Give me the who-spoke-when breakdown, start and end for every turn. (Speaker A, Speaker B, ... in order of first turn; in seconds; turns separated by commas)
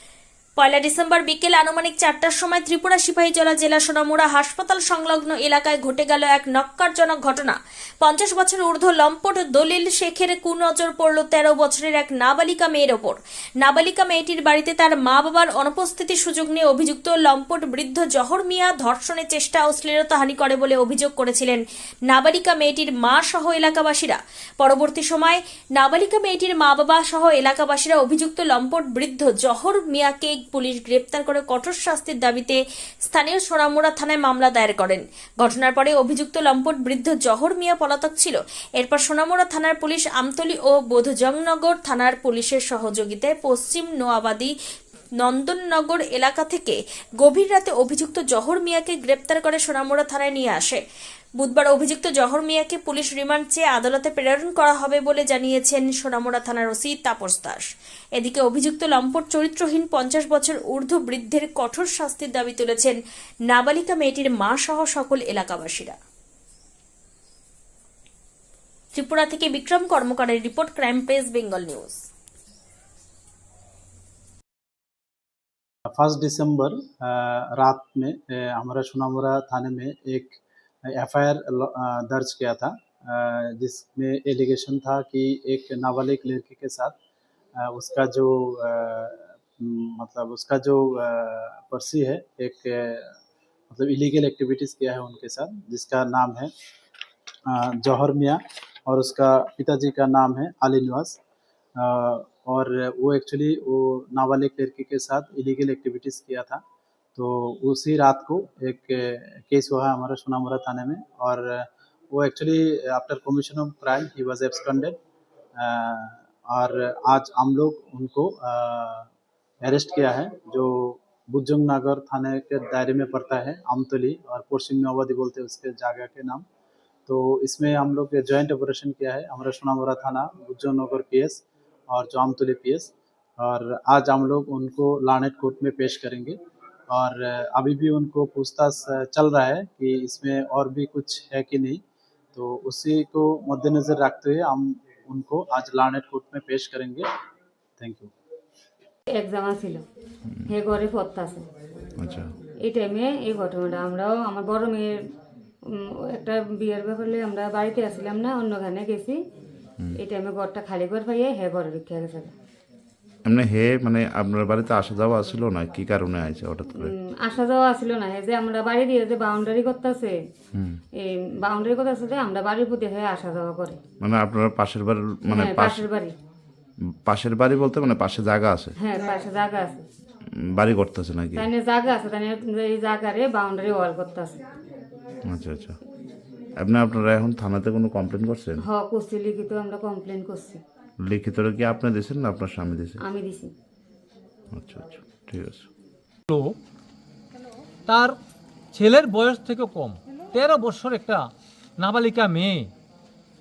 Speaker A: 0.6-44.5, Speaker A: 45.2-50.8, Speaker A: 51.4-57.6, Speaker A: 58.2-63.0, Speaker A: 63.5-66.0, Speaker A: 68.9-72.0, Speaker B: 75.9-87.0, Speaker B: 87.6-93.2, Speaker B: 93.7-96.5, Speaker B: 97.5-101.2, Speaker B: 101.8-106.6, Speaker B: 107.2-115.0, Speaker B: 115.6-119.1, Speaker B: 119.6-126.4, Speaker B: 127.1-136.4, Speaker B: 136.9-141.8, Speaker B: 142.3-147.1, Speaker B: 147.8-148.1, Speaker C: 149.2-149.8, Speaker C: 150.5-151.4, Speaker D: 152.0-152.3, Speaker C: 152.7-155.0, Speaker C: 155.8-159.2, Speaker C: 160.0-162.3, Speaker D: 163.2-166.9, Speaker C: 166.8-170.2, Speaker D: 170.5-170.8, Speaker C: 171.0-173.8, Speaker D: 174.0-175.9, Speaker C: 175.3-176.1, Speaker D: 177.1-178.8, Speaker C: 178.8-179.8, Speaker D: 180.5-181.5, Speaker C: 181.3-184.4, Speaker D: 185.3-185.8, Speaker D: 186.6-188.6, Speaker C: 188.6-190.6, Speaker D: 191.1-193.0, Speaker C: 193.0-193.5, Speaker D: 194.5-195.7, Speaker E: 196.3-196.6, Speaker E: 197.9-198.2, Speaker E: 198.7-202.7